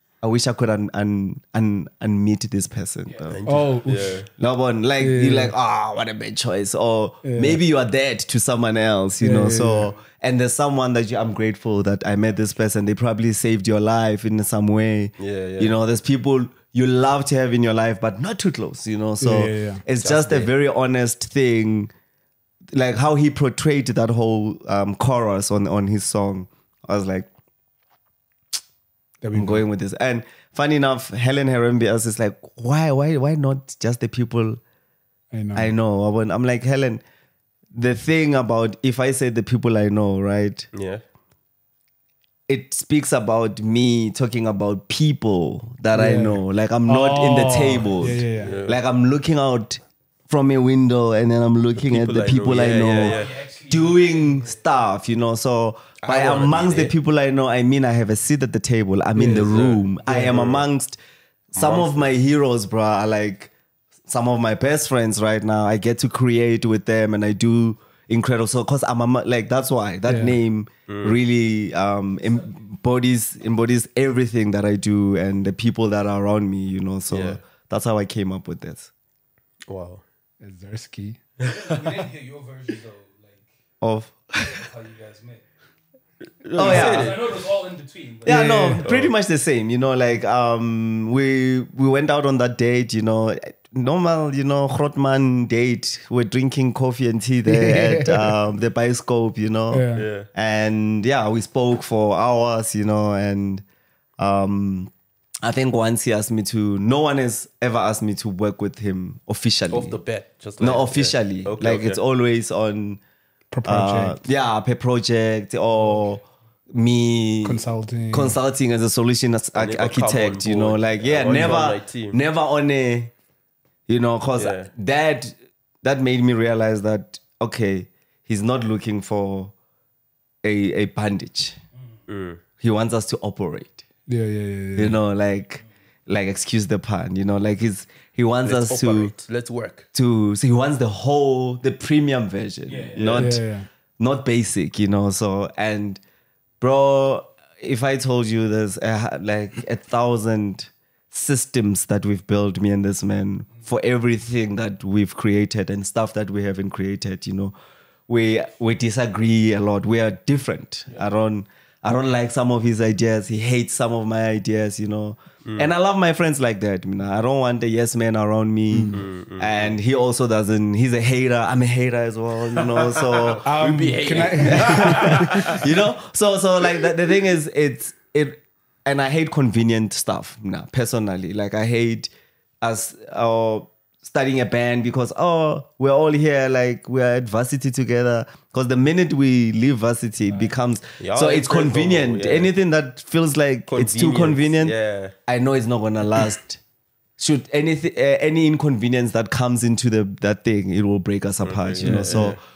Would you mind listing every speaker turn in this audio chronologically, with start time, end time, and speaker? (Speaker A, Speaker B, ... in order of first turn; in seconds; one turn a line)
Speaker A: 0.2-3.4
Speaker B: 3.1-3.4
Speaker C: 3.3-4.3
Speaker D: 3.5-4.2
Speaker A: 4.4-21.9
Speaker D: 5.0-5.5
Speaker D: 7.2-7.6
Speaker D: 9.2-9.9
Speaker C: 15.2-15.7
Speaker D: 19.2-19.8
Speaker C: 20.0-20.5
Speaker A: 22.7-27.3
Speaker D: 29.2-29.6
Speaker A: 29.3-34.6
Speaker D: 35.3-35.7
Speaker A: 35.5-37.0
Speaker A: 37.7-40.7
Speaker C: 40.7-41.0
Speaker A: 42.5-61.0
Speaker D: 45.9-48.5
Speaker C: 48.4-48.8
Speaker C: 51.8-53.4
Speaker B: 52.8-54.6
Speaker C: 56.0-56.9
Speaker C: 59.2-60.6
Speaker D: 60.1-60.4
Speaker A: 61.5-63.5
Speaker C: 61.5-62.1
Speaker A: 64.1-78.9
Speaker D: 70.1-70.4
Speaker C: 70.9-71.2
Speaker C: 77.1-77.4
Speaker C: 79.7-80.0
Speaker D: 80.4-81.2
Speaker C: 81.4-81.9
Speaker B: 81.4-83.5
Speaker A: 83.8-84.6
Speaker B: 84.4-85.4
Speaker C: 86.4-87.3
Speaker A: 86.5-87.2
Speaker B: 86.6-88.8
Speaker A: 88.2-103.6
Speaker D: 88.3-88.8
Speaker C: 88.8-89.1
Speaker D: 97.5-98.3
Speaker D: 99.7-100.1
Speaker C: 100.0-100.3
Speaker A: 104.2-104.9
Speaker A: 105.4-110.0
Speaker C: 109.7-112.0
Speaker A: 110.6-113.0
Speaker D: 113.5-114.2
Speaker A: 113.7-123.1
Speaker D: 117.4-118.3
Speaker C: 119.5-122.2
Speaker A: 123.9-129.5
Speaker C: 124.4-124.7
Speaker A: 130.4-131.6
Speaker C: 132.1-132.4
Speaker A: 132.6-133.8
Speaker D: 134.1-135.0
Speaker A: 134.8-139.1
Speaker C: 138.4-139.9
Speaker A: 139.9-143.4
Speaker B: 142.7-143.1
Speaker C: 143.0-143.4
Speaker D: 143.2-143.7
Speaker A: 144.0-146.0
Speaker A: 146.6-157.6
Speaker A: 158.1-173.5
Speaker C: 165.4-165.7
Speaker C: 168.9-169.8
Speaker C: 172.5-175.7
Speaker D: 173.4-175.5
Speaker A: 174.4-182.1
Speaker A: 182.6-194.8
Speaker C: 191.0-192.5
Speaker C: 193.7-195.2
Speaker A: 195.3-196.6
Speaker A: 197.2-202.4
Speaker C: 201.4-202.4
Speaker D: 201.8-202.3